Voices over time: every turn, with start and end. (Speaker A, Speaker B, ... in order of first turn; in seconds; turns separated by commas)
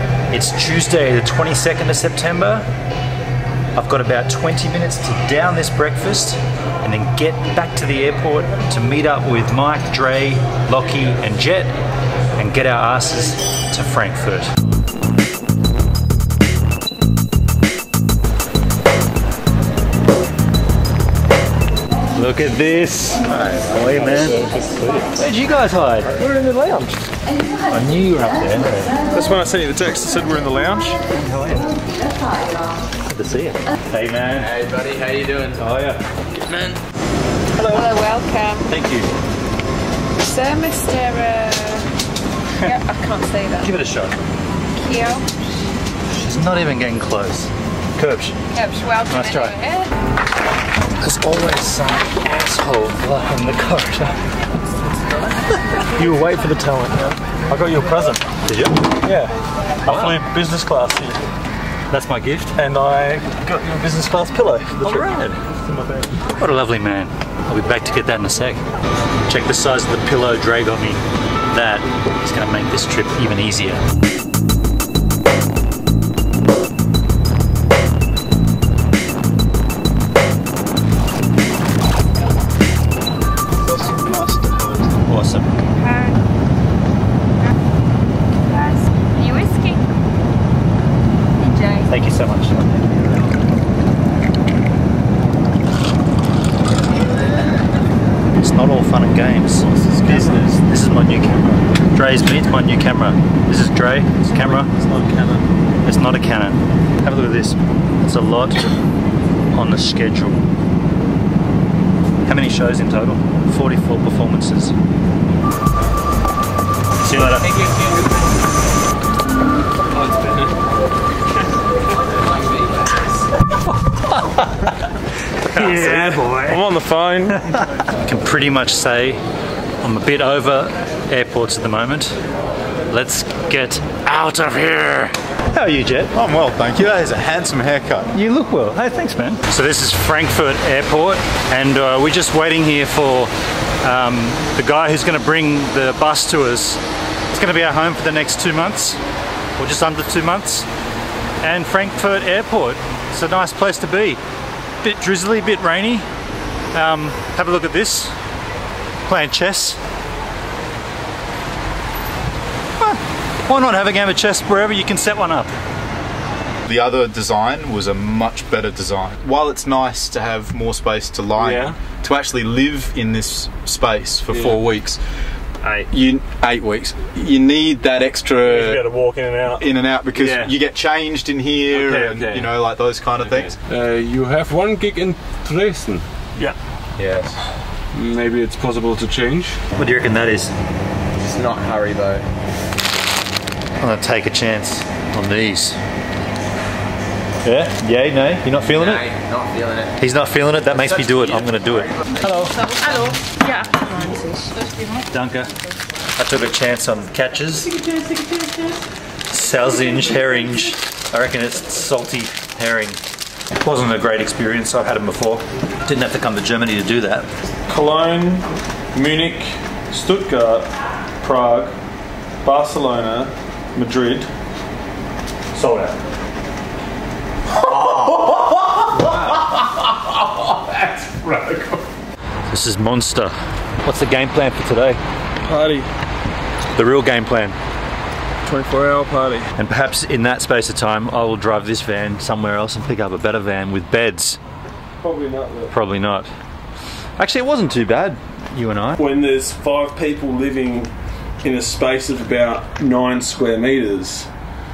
Speaker A: 0.3-2.7, Speaker A: 3.7-11.7, Speaker A: 12.4-14.5, Speaker A: 22.1-24.4, Speaker B: 23.6-25.1, Speaker A: 25.1-26.1, Speaker B: 26.1-27.0, Speaker A: 27.7-28.9, Speaker B: 29.1-31.0, Speaker A: 31.1-31.8, Speaker A: 33.0-34.5, Speaker C: 34.4-35.6, Speaker A: 35.6-36.7, Speaker A: 37.5-37.9, Speaker D: 37.7-38.7, Speaker A: 38.6-39.1, Speaker D: 40.2-41.9, Speaker D: 42.6-43.7, Speaker A: 43.6-44.2, Speaker D: 44.8-45.2, Speaker A: 46.1-48.4, Speaker D: 48.5-49.9, Speaker A: 49.1-49.5, Speaker A: 51.0-54.1, Speaker B: 55.7-58.2, Speaker A: 58.4-58.8, Speaker B: 59.0-61.2, Speaker A: 59.8-60.2, Speaker A: 61.9-62.5, Speaker B: 62.5-65.1, Speaker A: 64.8-65.4, Speaker B: 65.7-66.1, Speaker A: 66.3-68.6, Speaker A: 69.3-73.8, Speaker E: 83.6-85.0, Speaker A: 85.1-85.5, Speaker D: 85.7-86.2, Speaker D: 88.5-89.9, Speaker D: 91.4-91.9, Speaker A: 91.9-93.0, Speaker A: 98.4-104.7, Speaker B: 99.7-100.5, Speaker B: 104.3-105.5, Speaker A: 105.8-108.6, Speaker A: 109.5-110.4, Speaker A: 112.2-114.7, Speaker A: 117.0-117.6, Speaker B: 119.9-120.5, Speaker A: 124.1-124.6, Speaker A: 125.4-126.6, Speaker B: 125.5-127.4, Speaker A: 127.9-129.2, Speaker A: 129.8-132.1, Speaker A: 132.9-136.1, Speaker E: 136.1-138.1, Speaker A: 138.1-143.3, Speaker A: 143.8-146.8, Speaker A: 147.3-149.0, Speaker A: 149.6-150.7, Speaker A: 151.4-154.2, Speaker A: 154.8-156.0, Speaker A: 156.7-158.1, Speaker A: 159.1-159.8, Speaker A: 162.8-165.5, Speaker E: 166.7-175.0, Speaker B: 171.4-171.7, Speaker B: 174.3-174.6, Speaker E: 175.9-178.8, Speaker B: 178.4-179.6, Speaker E: 179.5-183.6, Speaker B: 180.2-180.5, Speaker F: 181.9-182.3, Speaker F: 183.7-186.1, Speaker E: 187.0-187.4, Speaker F: 187.9-189.6, Speaker A: 189.7-190.5, Speaker C: 191.2-192.2, Speaker A: 193.8-195.8, Speaker A: 197.4-199.1, Speaker C: 198.7-199.9, Speaker A: 200.0-202.7, Speaker C: 200.7-201.2, Speaker D: 202.9-204.4, Speaker A: 205.1-205.5, Speaker A: 206.2-207.8, Speaker B: 207.9-208.6, Speaker A: 209.3-213.0, Speaker A: 213.6-217.3, Speaker B: 217.7-221.7, Speaker B: 222.4-224.3, Speaker A: 225.5-225.9, Speaker B: 227.7-229.6, Speaker B: 230.4-231.8, Speaker A: 232.5-235.0, Speaker B: 235.4-235.9, Speaker A: 236.7-237.5, Speaker B: 238.4-239.5, Speaker A: 239.6-244.4, Speaker B: 245.0-245.7, Speaker A: 245.7-246.3, Speaker A: 247.2-249.0, Speaker B: 249.0-254.3